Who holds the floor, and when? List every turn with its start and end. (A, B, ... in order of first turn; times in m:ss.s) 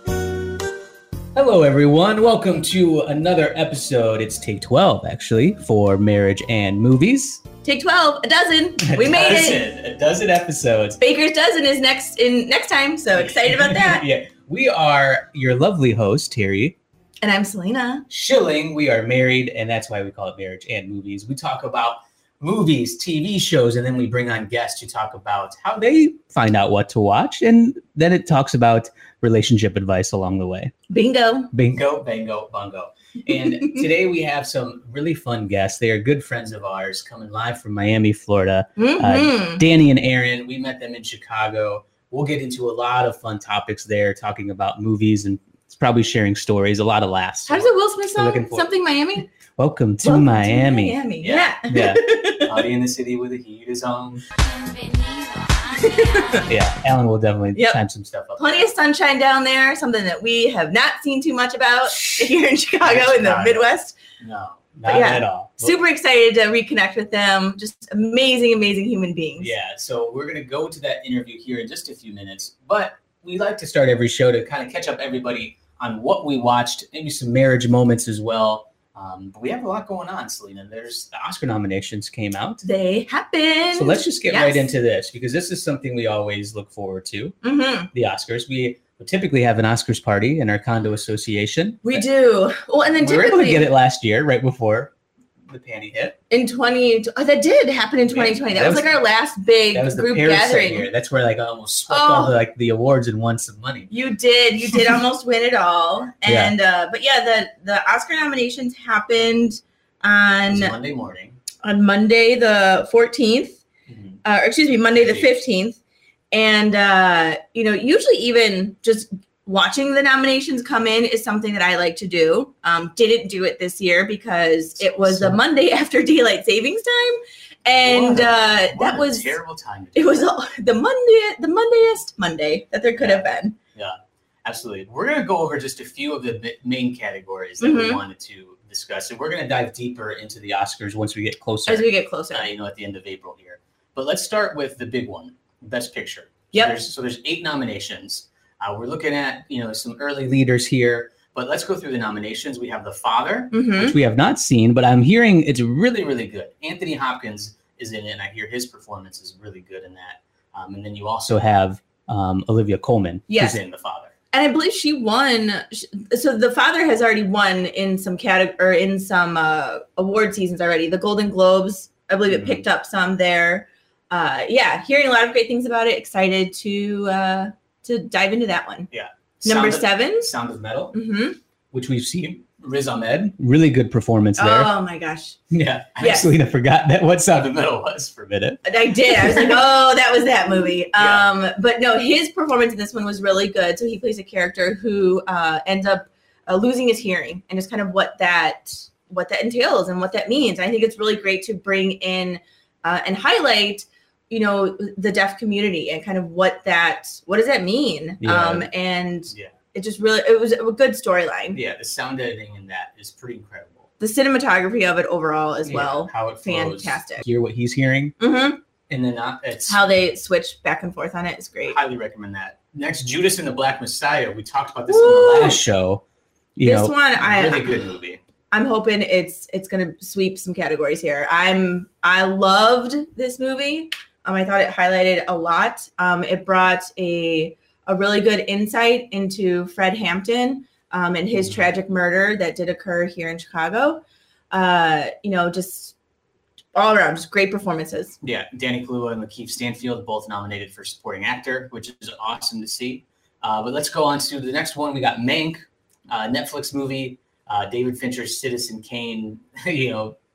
0:01.4-0:07.4 A
0:07.6-0:09.6 B
0:08.8-0:11.0 A
0:11.0-0:14.0 B
0:13.2-0:16.8 A
0:17.2-0:18.0 B
0:18.1-0:30.7 A
0:30.9-0:31.5 B
0:31.5-0:48.7 A
0:38.8-0:39.6 B
0:47.5-0:49.3 B
0:49.3-0:54.2 A
0:50.0-0:52.6 B
0:55.8-0:56.4 B
0:56.4-0:58.7 A
0:57.5-0:57.8 B
0:58.4-1:04.0 B
1:01.9-1:05.8 A
1:04.9-1:09.5 B
1:09.4-1:22.6 A
1:22.6-1:24.7 B
1:23.7-1:27.4 A
1:27.4-1:27.9 B
1:27.9-1:32.1 A
1:31.8-1:33.7 B
1:33.0-1:34.9 A
1:35.5-1:36.2 A
1:36.3-1:40.9 B
1:38.1-1:39.0 A
1:39.7-1:43.9 A
1:41.9-1:42.4 B
1:43.9-1:50.8 B
1:46.3-1:46.6 A
1:50.5-1:51.4 A
1:51.6-1:53.6 B
1:53.9-1:54.2 A
1:54.2-1:55.8 B
1:55.0-1:55.3 A
1:56.3-2:09.4 B
2:04.8-2:05.4 A
2:07.8-2:10.3 A
2:10.0-2:13.6 B
2:13.0-2:44.1 A
2:17.6-2:18.0 B
2:21.7-2:22.5 B
2:26.5-2:26.8 B
2:33.5-2:34.0 B
2:43.3-2:43.6 B
2:44.3-2:58.9 B
2:52.3-2:52.6 A
2:58.9-3:01.0 A
2:59.4-3:00.3 B
3:00.9-3:01.4 B
3:01.7-3:04.7 A
3:04.4-3:05.4 B
3:05.5-3:09.6 A
3:06.0-3:06.3 B
3:08.6-3:31.6 B
3:11.0-3:11.3 A
3:28.2-3:28.7 A
3:29.3-3:29.5 A
3:31.5-3:33.9 A
3:34.0-3:37.2 B
3:35.6-3:38.2 A
3:38.2-3:38.6 B
3:38.9-3:39.8 A
3:39.7-3:41.8 B
3:41.6-3:46.0 A
3:44.9-3:45.6 B
3:46.6-3:48.2 A
3:46.6-3:47.7 B
3:48.5-4:06.0 B
4:01.4-4:01.6 A
4:06.7-4:08.2 B
4:08.2-4:20.2 A